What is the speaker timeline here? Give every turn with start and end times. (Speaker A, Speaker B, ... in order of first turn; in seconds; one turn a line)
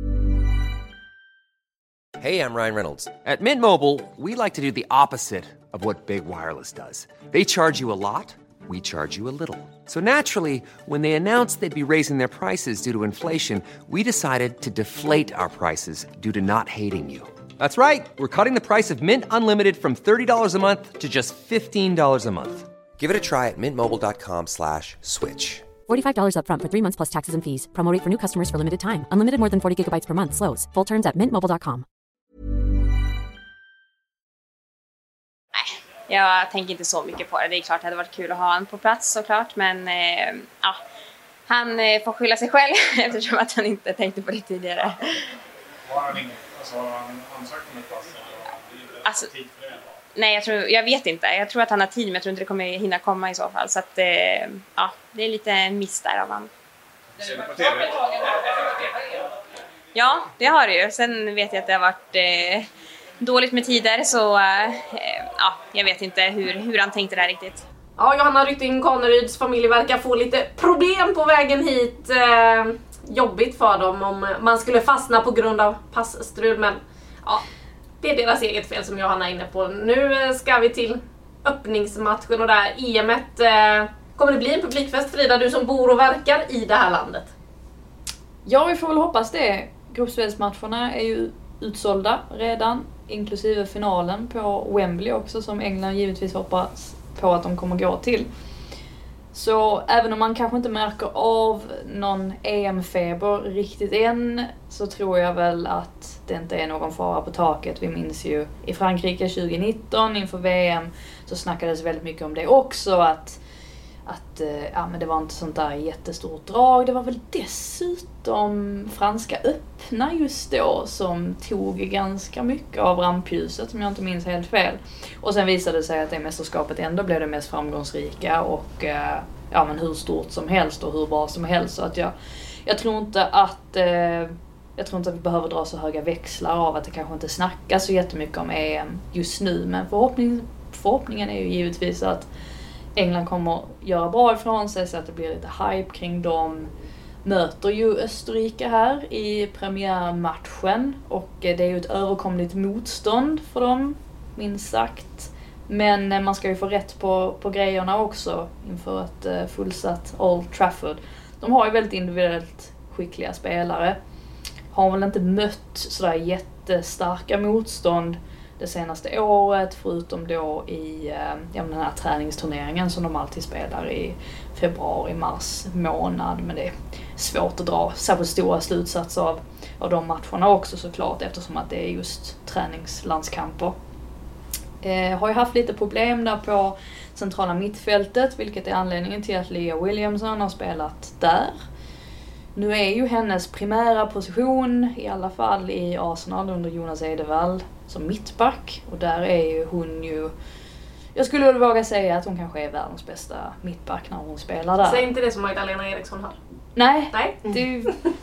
Speaker A: 2.2-22.7
Speaker B: 23.0-25.7
Speaker C: 25.9-31.9
Speaker D: 35.5-40.8
Speaker D: 41.5-45.0
Speaker E: 45.9-49.9
Speaker D: 49.0-49.3
Speaker D: 50.1-56.5
Speaker E: 57.2-58.1
Speaker D: 59.9-62.7
Speaker D: 63.2-67.6
Speaker F: 68.0-77.4
Speaker F: 78.0-87.3
Speaker G: 88.5-98.3
Speaker G: 99.3-113.4
Speaker G: 114.0-132.1
Speaker G: 132.7-142.3
Speaker G: 142.9-146.7
Speaker G: 147.2-164.0
Speaker G: 164.7-183.7
Speaker G: 184.8-191.6
Speaker G: 192.5-200.3
Speaker G: 201.1-205.1
Speaker F: 204.8-206.3
Speaker G: 206.8-208.0
Speaker F: 207.1-207.4